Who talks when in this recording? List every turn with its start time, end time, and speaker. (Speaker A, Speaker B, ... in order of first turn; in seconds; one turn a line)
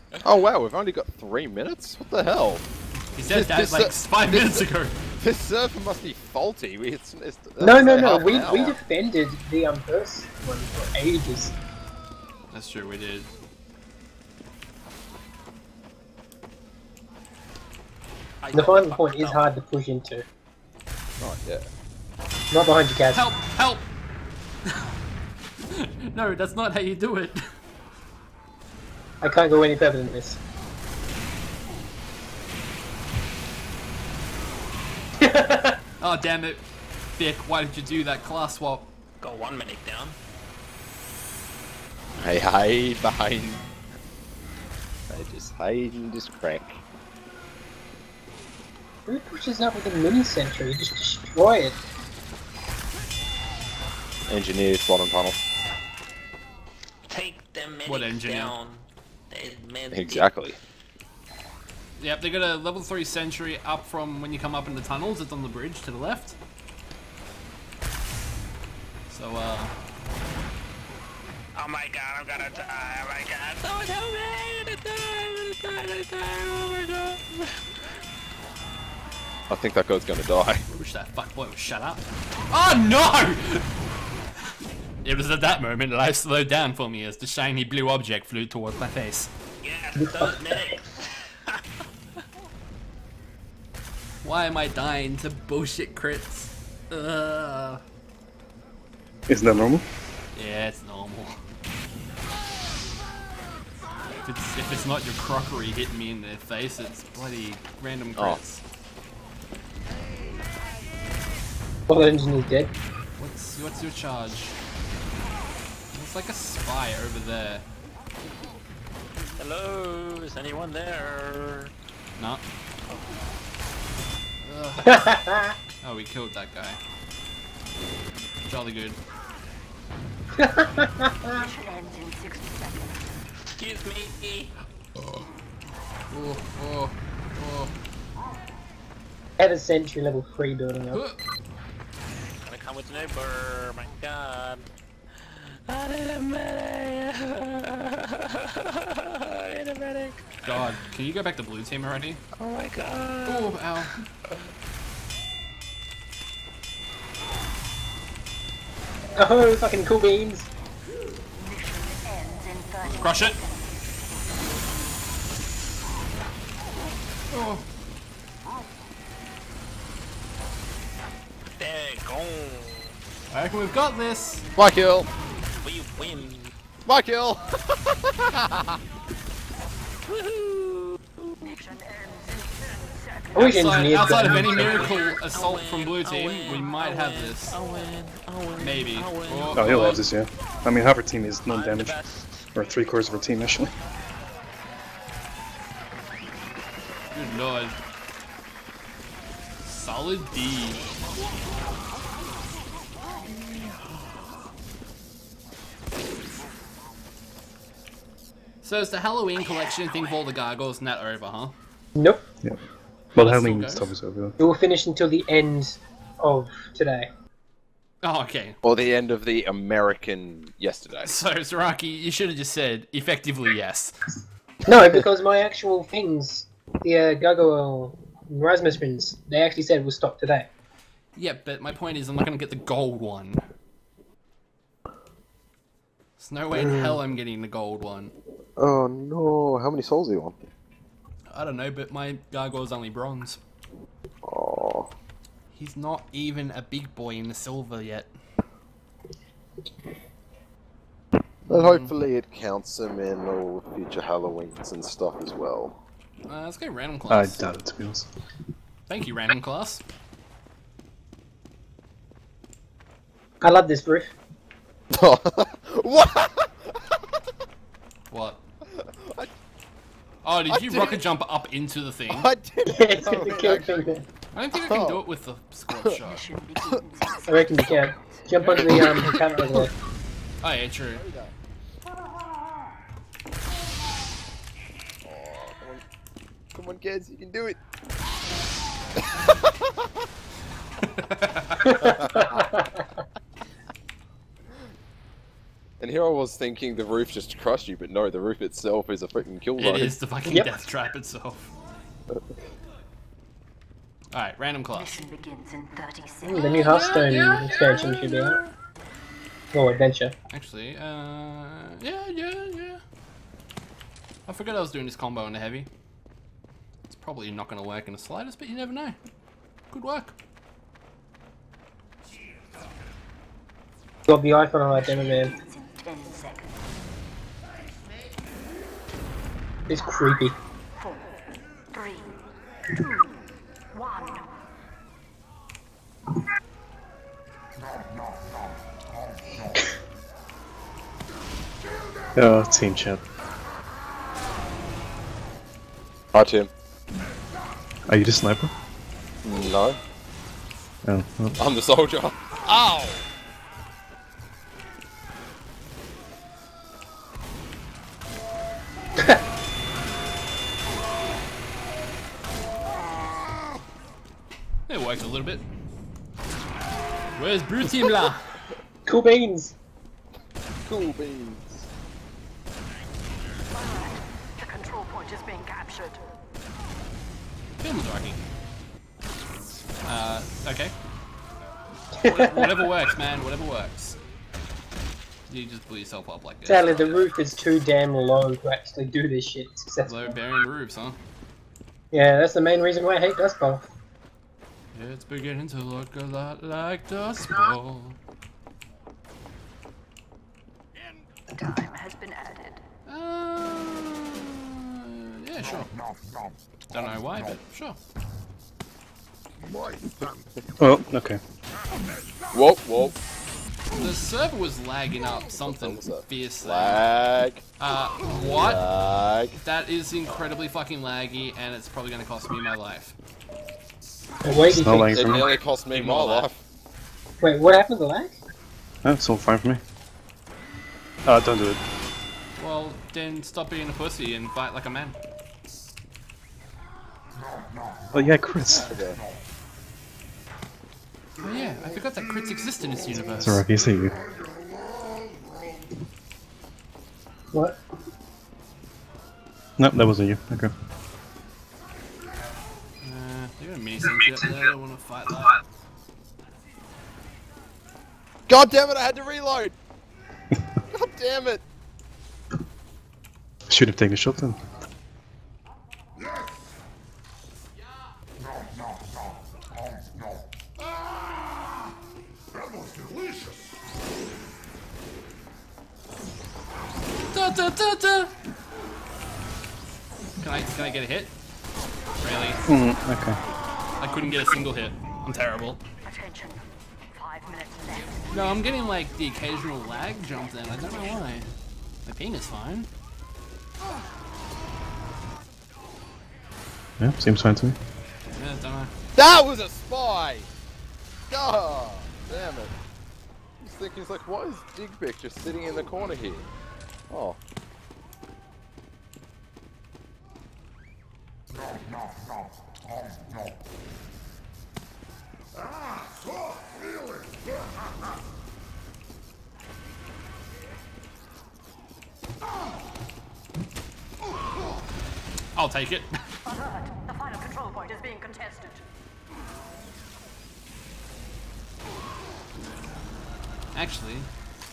Speaker A: 0.2-2.6
Speaker B: 3.1-4.9
Speaker A: 3.3-4.7
Speaker A: 5.2-8.8
Speaker C: 7.6-11.5
Speaker B: 12.5-13.3
Speaker D: 18.4-19.4
Speaker C: 18.5-20.2
Speaker A: 21.2-21.6
Speaker C: 22.5-23.2
Speaker B: 23.1-23.9
Speaker B: 25.7-27.4
Speaker C: 29.2-30.4
Speaker C: 35.2-35.7
Speaker B: 36.0-36.6
Speaker B: 37.2-38.9
Speaker D: 39.2-40.1
Speaker A: 42.2-43.6
Speaker A: 45.1-46.8
Speaker C: 49.1-51.8
Speaker A: 54.3-55.4
Speaker D: 57.1-60.3
Speaker B: 57.9-58.5
Speaker A: 59.9-60.6
Speaker B: 62.0-66.3
Speaker B: 69.1-69.7
Speaker D: 71.5-77.7
Speaker A: 79.5-80.6
Speaker B: 80.7-83.7
Speaker B: 85.0-89.3
Speaker D: 89.6-91.6
Speaker C: 90.0-90.3
Speaker B: 94.2-97.8
Speaker E: 99.3-99.8
Speaker B: 100.3-101.3
Speaker B: 104.2-108.6
Speaker C: 111.9-112.7
Speaker B: 113.2-114.6
Speaker B: 115.9-117.6
Speaker D: 119.4-121.7
Speaker B: 122.2-122.4
Speaker B: 124.4-125.2
Speaker C: 124.8-125.5
Speaker B: 125.8-126.8
Speaker B: 128.5-129.0
Speaker C: 130.4-131.4
Speaker F: 131.3-133.0
Speaker D: 133.6-134.5
Speaker B: 135.0-135.3
Speaker B: 136.1-137.7
Speaker C: 139.4-141.0
Speaker B: 140.9-141.2
Speaker D: 142.4-144.7
Speaker D: 145.2-150.6
Speaker B: 150.4-152.2
Speaker D: 152.3-153.9
Speaker B: 153.2-153.9
Speaker C: 159.2-160.5
Speaker F: 161.3-163.9
Speaker B: 163.0-163.4
Speaker B: 167.3-167.6
Speaker D: 171.5-172.9
Speaker B: 173.3-174.5
Speaker A: 174.6-175.1
Speaker D: 175.6-176.5
Speaker A: 176.8-178.8
Speaker D: 180.0-181.5
Speaker F: 181.4-183.4
Speaker C: 183.3-184.9
Speaker B: 183.3-187.6
Speaker F: 184.1-184.4
Speaker D: 184.6-189.9
Speaker B: 188.6-190.0
Speaker E: 189.5-192.0
Speaker D: 191.5-192.5
Speaker E: 192.5-193.7
Speaker B: 197.1-197.8
Speaker B: 199.6-200.8
Speaker D: 203.5-203.9
Speaker B: 208.6-211.5
Speaker C: 211.9-212.2
Speaker E: 213.1-214.3
Speaker B: 213.2-213.9
Speaker C: 214.4-217.1
Speaker B: 218.0-218.6
Speaker A: 218.6-221.1
Speaker B: 221.0-224.0
Speaker C: 224.7-230.5
Speaker B: 231.2-233.4
Speaker B: 236.2-238.1
Speaker A: 236.5-237.0
Speaker A: 238.6-240.4
Speaker B: 241.3-243.4
Speaker A: 244.2-244.9
Speaker B: 245.5-248.1
Speaker B: 251.4-251.9
Speaker A: 251.5-255.8
Speaker B: 256.2-257.4
Speaker E: 257.1-258.1
Speaker B: 258.9-259.8
Speaker C: 263.4-264.1
Speaker A: 264.9-267.0
Speaker B: 268.1-268.4
Speaker A: 268.7-269.3
Speaker B: 270.2-272.3
Speaker A: 270.5-271.0
Speaker A: 272.1-273.9
Speaker C: 272.7-274.0
Speaker B: 274.3-276.2
Speaker A: 274.7-275.0
Speaker F: 276.0-278.2
Speaker C: 277.2-279.7
Speaker B: 278.4-279.1
Speaker A: 278.7-279.6
Speaker B: 280.4-281.0
Speaker A: 280.9-281.3
Speaker A: 285.0-285.8
Speaker A: 286.5-287.6
Speaker A: 289.0-289.8
Speaker B: 290.8-291.8
Speaker C: 291.6-292.2
Speaker A: 291.8-292.7
Speaker A: 295.8-299.9
Speaker B: 299.6-301.5
Speaker B: 304.1-305.0
Speaker F: 304.7-306.9
Speaker C: 306.2-308.4
Speaker B: 306.4-308.5
Speaker C: 309.5-310.1
Speaker B: 310.3-312.8
Speaker B: 314.2-315.7
Speaker B: 316.9-319.0
Speaker B: 319.7-320.1
Speaker C: 324.1-325.3
Speaker F: 324.8-326.6
Speaker C: 329.7-330.3
Speaker F: 330.8-332.1
Speaker F: 332.7-333.2
Speaker F: 333.7-334.3
Speaker E: 342.1-343.0
Speaker A: 346.1-346.5
Speaker E: 347.9-348.5
Speaker A: 349.2-349.8
Speaker E: 350.8-351.4
Speaker A: 351.4-353.0
Speaker B: 364.7-365.4
Speaker B: 367.1-368.3
Speaker C: 368.9-369.5
Speaker A: 370.6-371.5
Speaker F: 373.5-376.0
Speaker B: 377.6-378.3
Speaker B: 379.8-380.7
Speaker C: 382.0-382.5
Speaker B: 382.0-384.0
Speaker B: 385.3-386.8
Speaker C: 386.4-390.1
Speaker B: 389.9-391.0
Speaker C: 391.9-393.6
Speaker B: 394.7-398.0
Speaker F: 401.3-402.6
Speaker B: 402.9-405.7
Speaker B: 406.7-407.8
Speaker E: 410.6-411.2
Speaker A: 412.3-412.9
Speaker B: 413.7-416.9
Speaker A: 415.3-417.4
Speaker B: 417.6-418.6
Speaker A: 418.1-419.3
Speaker B: 419.3-422.9
Speaker C: 424.2-425.0
Speaker E: 424.5-425.3
Speaker A: 424.9-426.4
Speaker B: 425.7-426.3
Speaker C: 427.2-428.2
Speaker E: 428.8-429.6
Speaker E: 431.0-431.6
Speaker B: 432.4-435.0
Speaker E: 437.9-438.8
Speaker A: 438.5-439.0
Speaker B: 441.2-443.4
Speaker E: 443.2-443.9
Speaker E: 449.6-450.5
Speaker B: 452.8-455.4
Speaker A: 458.3-459.5
Speaker A: 460.7-461.4
Speaker E: 463.5-464.4
Speaker B: 477.1-478.1
Speaker B: 480.2-481.1
Speaker B: 482.0-482.4
Speaker E: 482.5-483.2
Speaker B: 483.8-485.6
Speaker F: 485.8-488.1
Speaker B: 488.1-491.3
Speaker B: 491.9-492.7
Speaker E: 496.8-497.6
Speaker B: 498.1-498.7
Speaker A: 498.9-500.3
Speaker A: 501.1-502.5
Speaker A: 503.4-506.3
Speaker A: 506.9-507.2
Speaker B: 525.3-525.9
Speaker F: 526.2-528.6
Speaker B: 533.5-534.1